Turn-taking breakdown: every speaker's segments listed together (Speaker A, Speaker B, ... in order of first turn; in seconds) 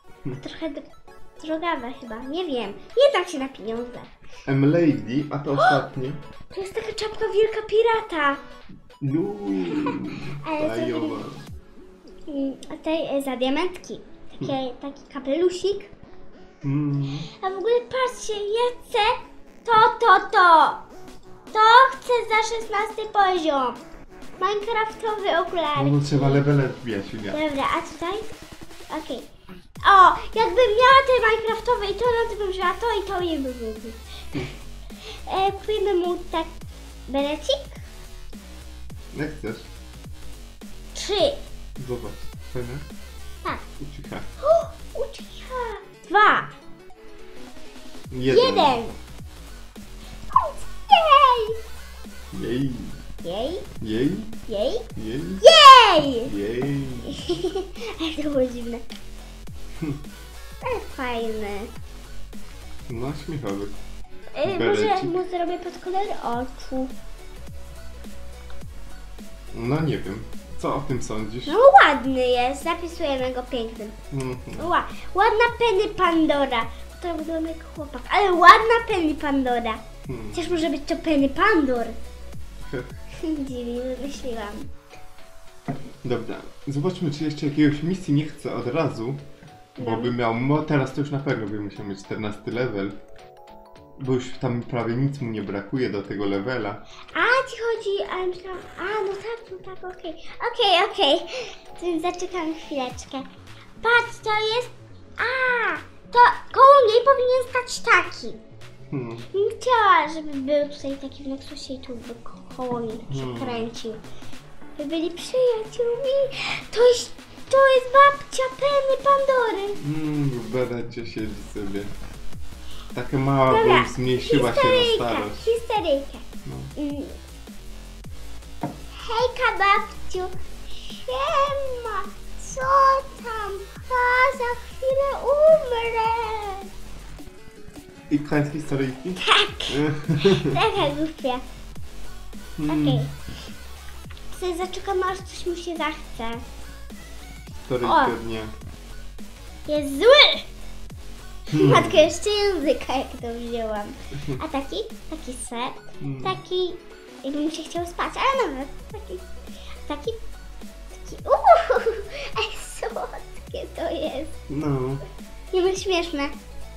Speaker A: 0.4-0.9, 1.4-4.1, 5.6-5.8, 6.5-8.4, 9.8-11.2, 12.3-15.9, 17.4-20.8, 21.5-23.8, 24.4-26.4, 27.3-28.3, 28.9-29.3, 29.8-34.0, 35.2-36.5, 37.1-37.8, 40.9-41.4, 44.4-46.5, 48.3-49.0, 50.3-51.6, 53.2-53.7, 54.5-54.9, 55.4-56.3, 57.0-58.8, 60.6-61.7, 64.3-66.9, 71.5-74.0, 74.5-79.8, 80.3-82.0, 83.2-84.7, 89.8-90.1, 97.1-103.3, 103.8-108.4, 109.3-114.0, 114.8-119.8, 123.5-126.2, 126.8-127.2, 128.9-136.7, 139.2-141.4, 142.7-143.1, 144.3-146.4, 147.8-148.2, 149.7-150.5, 151.5-159.3, 159.8-160.2, 160.9-164.3, 165.5-166.3
Speaker B: 4.5-6.2, 9.0-11.5, 16.6-17.3, 25.8-27.4, 39.1-39.7, 41.8-42.8, 43.8-44.3, 48.1-48.8, 52.3-53.0, 53.8-54.4, 55.0-55.5, 56.2-57.2, 62.9-63.8, 64.4-65.2, 69.5-71.6, 74.1-74.7, 80.1-80.5, 86.0-93.0, 94.0-96.8, 108.9-109.3, 113.1-113.7, 119.8-121.9, 122.9-125.4, 126.4-126.7, 138.1-140.5, 142.6-143.1, 147.7-148.5, 151.5-152.1, 156.0-156.4, 164.5-165.0